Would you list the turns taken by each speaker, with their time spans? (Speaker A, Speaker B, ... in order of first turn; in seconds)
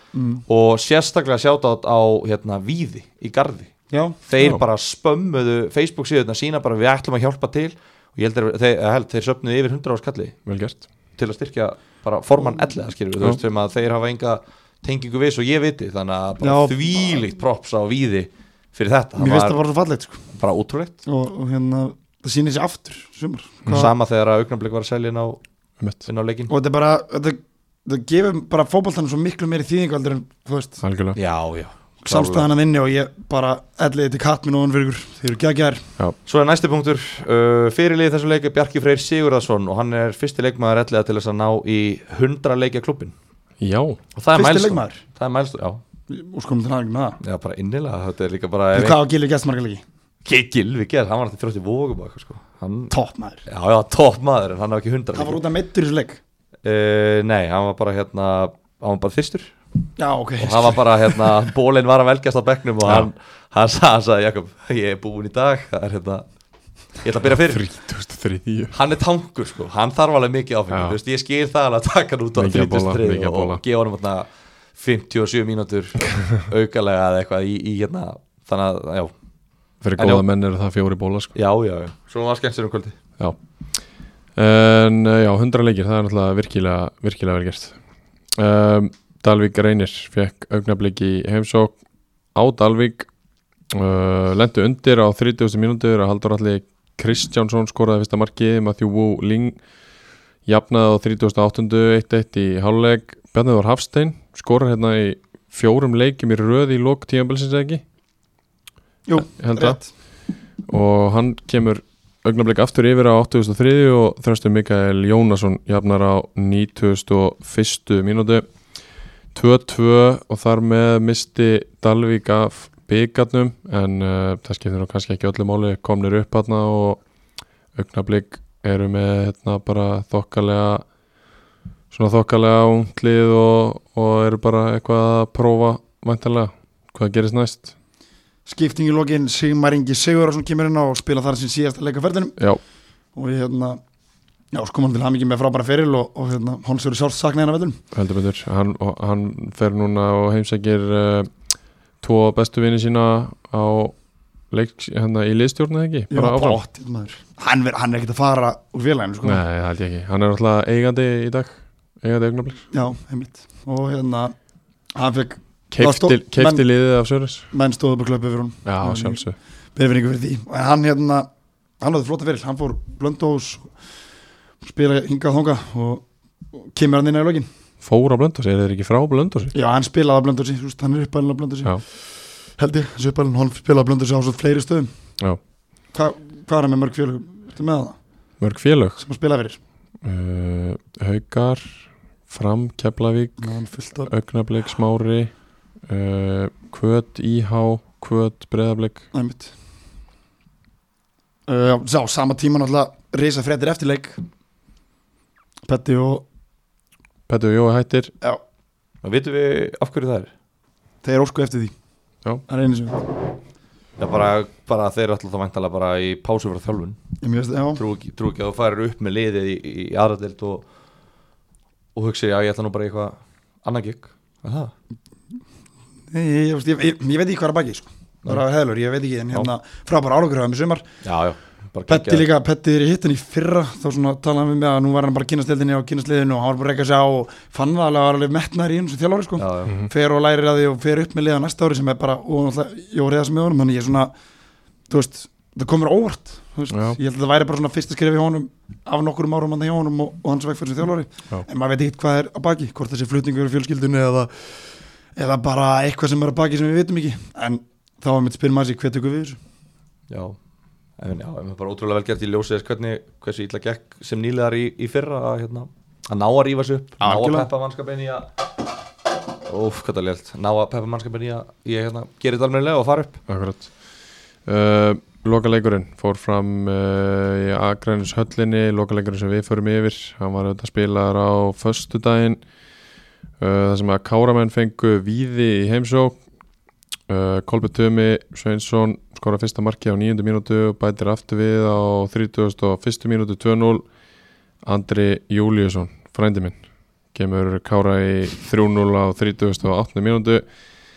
Speaker A: 0.1-0.4, 3.9-4.2, 16.4-17.2, 19.2-20.2, 21.1-23.9, 26.5-30.8, 32.0-35.8, 44.3-45.0, 46.1-47.2, 48.7-49.8, 52.9-53.4, 55.1-56.2, 60.0-61.3, 109.1-109.9, 138.4-142.4, 143.2-143.8, 144.5-147.8, 156.1-159.4, 162.7-164.3, 164.9-166.6, 167.5-171.3, 171.8-173.7, 174.6-176.0, 176.5-177.5, 179.5-184.9, 185.9-188.0, 189.0-189.6, 193.4-194.1, 199.1-199.5, 201.5-204.2, 205.7-206.2, 211.0-211.7, 212.5-213.1, 217.2-217.8, 226.1-230.9, 231.9-244.1, 244.9-259.4, 267.0-267.5
Speaker B: 0.5-10.4, 11.1-19.6, 20.4-21.0, 23.7-25.4, 26.1-26.5, 31.1-32.5, 36.2-43.1, 44.1-45.8, 47.2-49.0, 50.2-52.9, 53.5-55.4, 56.6-59.5, 60.4-66.2, 67.0-67.7, 68.7-79.1, 80.0-80.2, 81.3-83.0, 209.0-210.3, 214.0-217.0, 217.8-220.6, 221.9-224.7, 231.0-232.3, 239.4-239.7, 260.1-260.4, 261.0-268.3, 269.4-273.2
Speaker C: 10.4-10.8, 25.8-26.1, 30.8-31.2, 43.6-44.0, 67.3-68.7, 70.7-71.0, 72.3-73.6, 79.8-81.3, 83.2-83.8, 84.3-87.8, 88.3-91.8, 92.3-93.1, 93.7-99.6, 100.5-107.8, 109.2-109.8, 110.7-118.5, 119.3-127.0, 127.7-130.8, 131.9-137.7, 147.9-151.3, 152.0-154.0, 154.5-156.6, 159.2-162.7, 165.7-167.5, 168.6-169.3, 177.8-179.5, 188.4-189.0, 190.0-193.5, 194.1-195.3, 195.9-199.1, 207.3-208.1, 246.7-247.0, 273.3-273.8, 274.4-282.4, 283.4-286.2, 287.1-293.9, 294.6-296.6, 297.1-300.4